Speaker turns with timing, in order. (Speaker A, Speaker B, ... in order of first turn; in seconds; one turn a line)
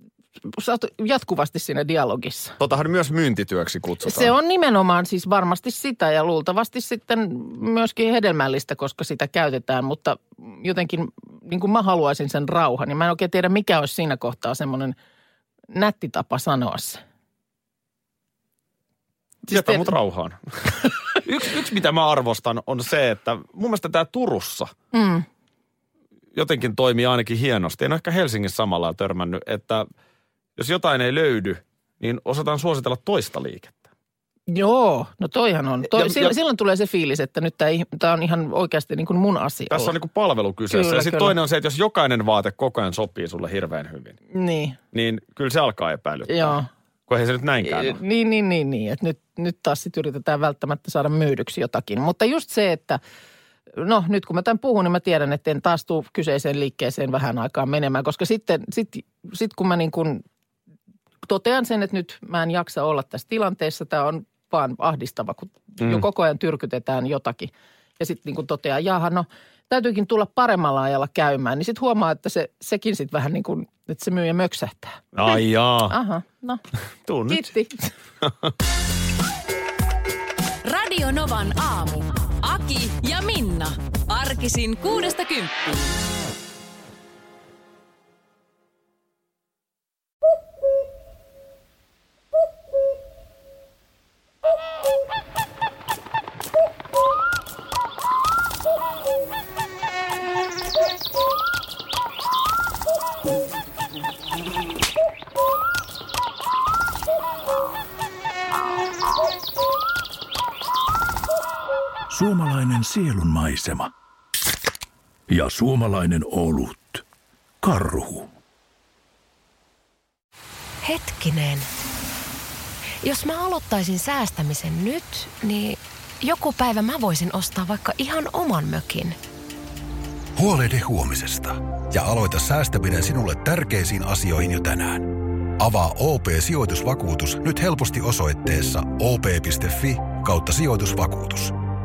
Speaker A: 0.5-2.6
Speaker B: 2.6-4.3
Speaker A: 4.0-14.9
Speaker A: 15.7-17.0
Speaker A: 19.4-19.9
Speaker B: 19.5-24.7
Speaker A: 24.9-25.2
Speaker B: 26.3-29.9
Speaker B: 30.6-33.8
Speaker A: 34.5-40.0
Speaker B: 35.9-36.3
Speaker B: 39.7-44.2
Speaker A: 40.7-41.4
Speaker A: 44.3-44.8
Speaker B: 44.9-48.0
Speaker A: 46.3-46.7
Speaker A: 47.6-53.0
Speaker A: 53.7-60.2
Speaker A: 61.2-76.6
Speaker B: 65.8-66.0
Speaker B: 75.1-76.0
Speaker B: 77.0-77.5
Speaker A: 77.2-77.9
Speaker B: 78.2-78.5
Speaker C: 80.6-85.9
Speaker D: 112.1-113.9
Speaker D: 115.3-117.0
Speaker D: 117.6-118.3
Speaker E: 120.8-121.7
Speaker E: 123.0-129.2
Speaker F: 130.3-141.5